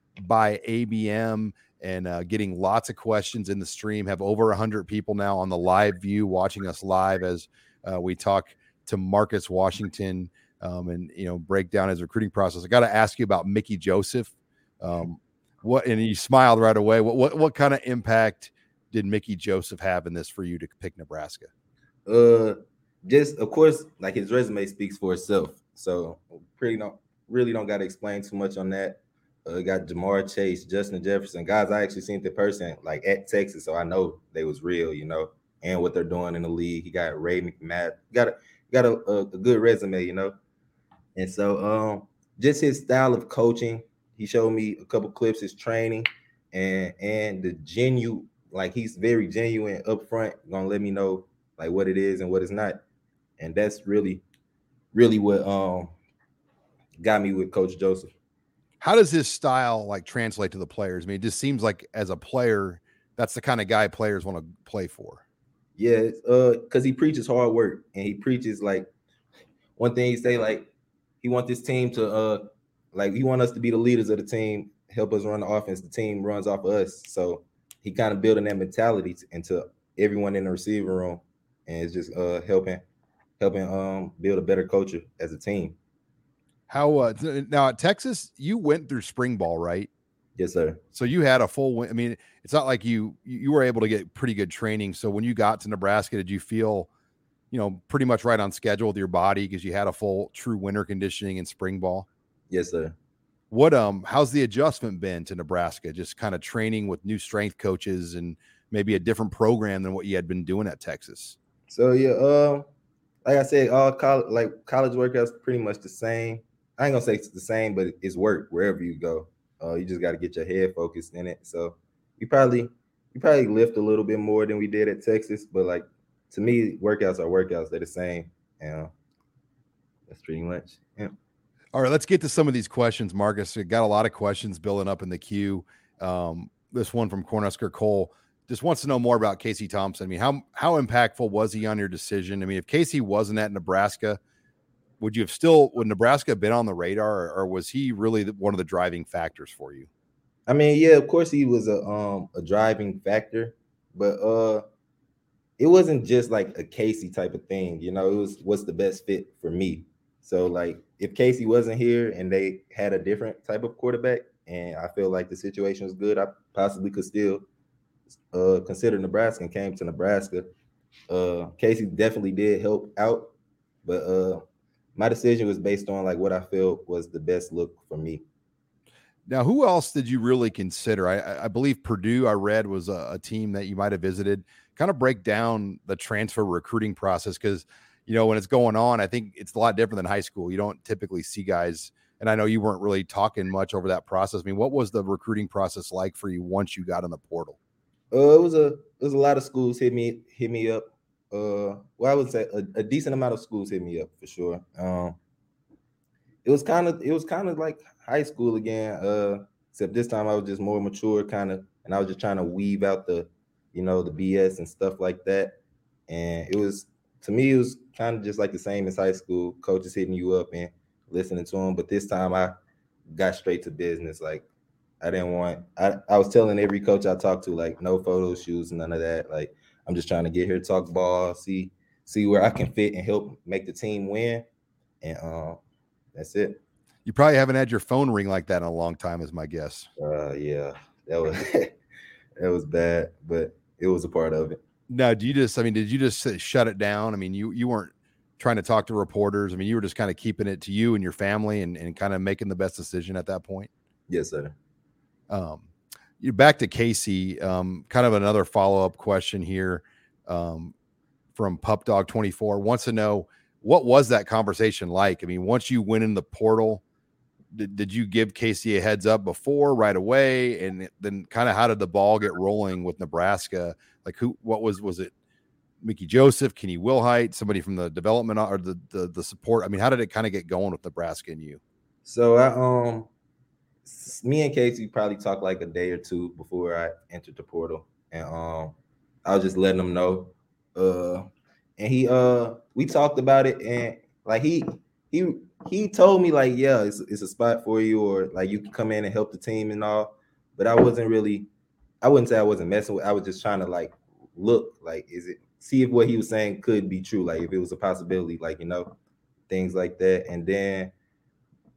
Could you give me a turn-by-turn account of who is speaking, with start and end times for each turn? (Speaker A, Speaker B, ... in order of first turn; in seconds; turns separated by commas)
Speaker A: 0.2-21.5, Speaker B: 22.1-40.4, Speaker B: 41.2-52.8, Speaker B: 53.4-54.2, Speaker B: 54.9-55.9, Speaker B: 57.0-58.1, Speaker A: 58.8-65.2, Speaker B: 65.8-68.9, Speaker B: 69.8-70.7, Speaker B: 71.2-82.8, Speaker B: 83.4-85.8, Speaker A: 86.7-89.9, Speaker B: 90.4-90.8, Speaker A: 90.9-96.9, Speaker A: 97.5-102.1, Speaker B: 102.5-103.0, Speaker A: 103.5-111.4, Speaker B: 111.7-112.7, Speaker B: 113.2-128.9, Speaker B: 130.1-131.1, Speaker A: 131.7-144.2, Speaker A: 145.0-149.9, Speaker B: 150.5-154.6, Speaker B: 155.6-167.5, Speaker B: 168.3-170.5, Speaker B: 171.1-173.3, Speaker B: 173.8-174.4, Speaker B: 175.0-178.2, Speaker A: 179.3-197.6, Speaker B: 198.1-205.2, Speaker B: 206.4-215.6, Speaker B: 216.1-222.6, Speaker B: 223.1-224.5, Speaker B: 225.0-234.4, Speaker B: 235.0-235.6, Speaker B: 236.2-236.6, Speaker A: 237.1-239.9, Speaker B: 240.0-241.8, Speaker B: 242.4-244.6, Speaker A: 244.9-253.7, Speaker B: 254.1-254.6, Speaker A: 255.3-255.7, Speaker A: 256.2-260.7, Speaker A: 261.4-266.8, Speaker A: 267.5-275.1, Speaker A: 275.8-281.6, Speaker B: 282.1-283.1, Speaker B: 283.9-288.7, Speaker B: 289.2-301.5, Speaker B: 302.0-308.9, Speaker B: 309.5-310.9